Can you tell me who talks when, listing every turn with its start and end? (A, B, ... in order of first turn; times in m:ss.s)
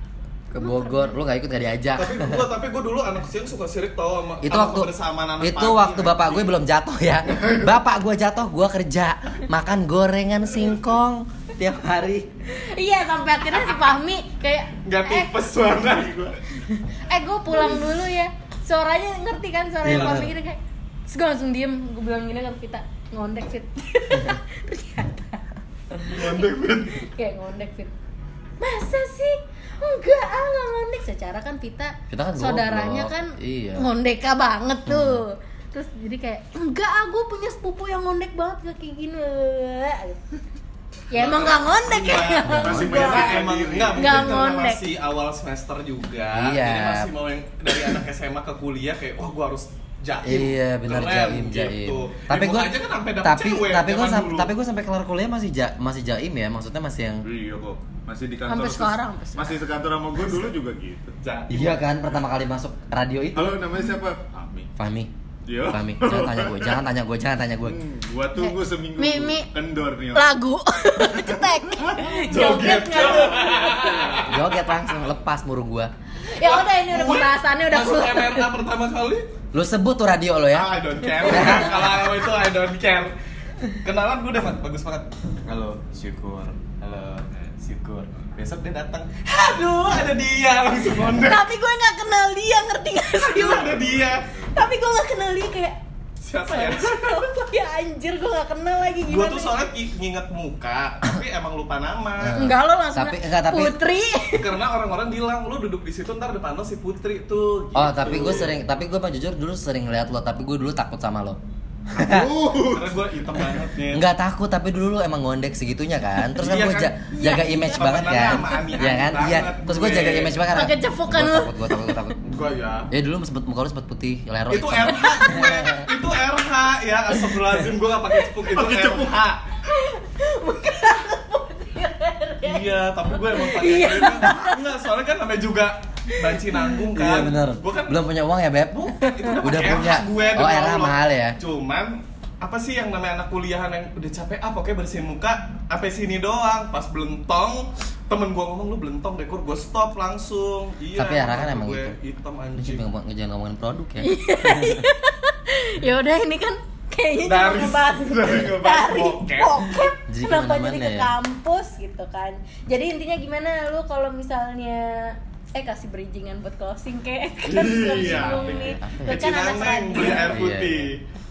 0:00.5-0:02.4 A
0:00.6-0:01.2 B
0:02.0-0:06.6 C
0:04.4-0:12.3 A
0:12.5-0:15.4 B
0:14.8-0:16.3 C
0:15.7-0:16.4 D
0:16.9-0:25.4 B
0:19.8-0:20.3 A
0:19.8-0:20.3 C
0:26.0-0:26.4 B
0:26.0-0:27.1 C
0:27.1-0:27.9 B
0:28.6-0:40.2 B
0:32.1-0:33.8 A
0:34.8-0:35.2 A
0:41.1-0:43.4 B
0:41.1-0:54.5 C
0:42.4-0:42.9 A
0:42.5-0:44.6 D
0:44.0-0:44.9 B
0:46.3-0:47.1 A
0:50.2-0:57.2 A
0:57.2-1:01.2 D
0:58.5-0:59.6 B
1:01.2-1:02.0 C
1:01.5-1:03.6 A
1:03.3-1:04.7 D
1:04.8-1:05.1 A
1:05.4-1:06.8 D
1:05.6-1:07.8 A
1:07.6-1:10.2 D
1:08.3-1:09.5 B
1:10.1-1:14.2 B
1:11.0-1:14.3 D
1:12.3-1:14.4 C
1:14.3-1:15.9 A
1:16.2-1:18.5 B
1:16.4-1:19.2 C
1:19.5-1:22.2 A
1:20.5-1:23.1 C
1:23.6-1:31.4 C
1:31.1-1:33.8 B
1:33.2-1:34.2 C
1:33.6-1:34.4 D
1:34.5-1:35.8 B
1:36.2-1:37.3 C
1:36.5-1:39.7 B
1:39.0-1:42.4 C
1:42.2-1:43.8 A
1:42.3-1:44.6 B
1:44.3-1:48.6 C
1:47.7-1:51.4 A
1:51.9-1:52.3 A
1:51.9-1:53.5 D
1:52.7-1:54.0 C
1:53.9-2:02.2 A
1:56.4-1:57.0 C
1:57.1-1:58.6 B
1:57.7-2:00.4 C
2:00.5-2:01.9 B
2:02.2-2:02.9 C
2:02.9-2:05.8 A
2:04.5-2:09.4 C
2:05.0-2:05.7 B
2:08.4-2:09.2 D
2:09.6-2:14.6 B
2:12.4-2:18.0 C
2:16.9-2:21.4 A
2:18.8-2:32.8 C
2:19.3-2:20.4 B
2:31.0-2:31.9 A
2:32.6-2:34.8 A
2:34.0-2:50.3 B
2:37.2-2:39.7 C
2:40.1-2:41.1 A
2:47.4-2:51.0 C
2:47.7-2:50.9 A